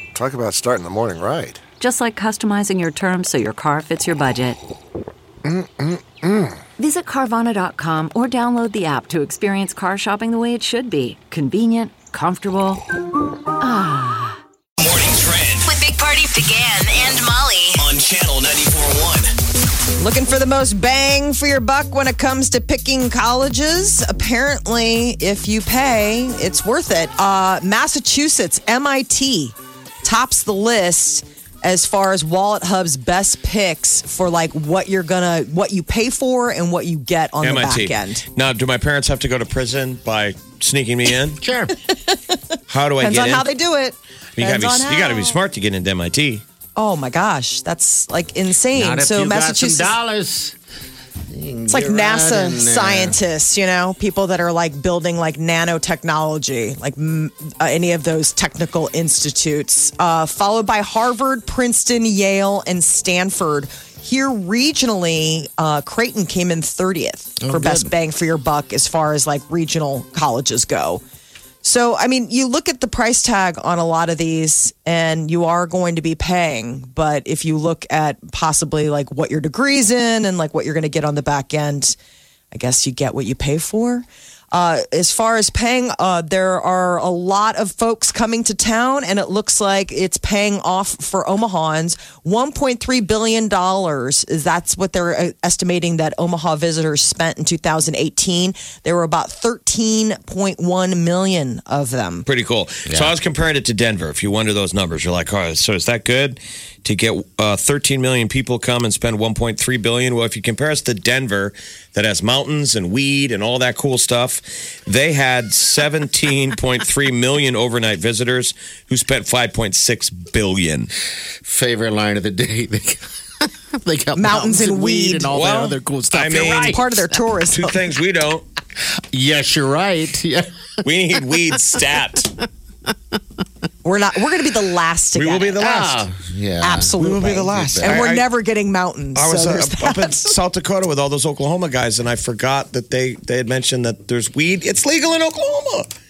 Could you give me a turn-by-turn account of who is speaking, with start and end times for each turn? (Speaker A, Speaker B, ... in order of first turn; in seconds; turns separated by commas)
Speaker A: 0.1-1.6, Speaker B: 1.8-4.6, Speaker A: 5.5-6.5, Speaker B: 6.8-12.8, Speaker B: 13.6-14.4, Speaker C: 14.8-15.7, Speaker D: 15.7-17.8, Speaker B: 17.2-17.8, Speaker C: 17.7-19.3, Speaker E: 20.0-38.2, Speaker F: 37.4-41.4, Speaker G: 41.4-41.7, Speaker E: 41.9-42.2, Speaker F: 42.7-43.5, Speaker E: 43.0-45.4, Speaker F: 44.4-46.4, Speaker E: 46.8-50.0, Speaker G: 48.7-50.6, Speaker G: 51.3-53.2, Speaker E: 51.7-71.0, Speaker G: 67.4-67.9, Speaker E: 71.6-82.0, Speaker E: 82.5-102.2, Speaker F: 102.2-120.9, Speaker G: 102.9-103.1, Speaker G: 121.4-127.2, Speaker E: 124.2-125.3, Speaker F: 125.3-126.8, Speaker E: 126.6-127.8, Speaker F: 127.5-128.4, Speaker G: 129.1-130.5, Speaker F: 130.8-132.4, Speaker E: 133.8-135.9, Speaker F: 135.1-136.1, Speaker G: 135.6-138.1, Speaker E: 136.6-140.3, Speaker F: 137.0-138.2, Speaker F: 139.1-145.9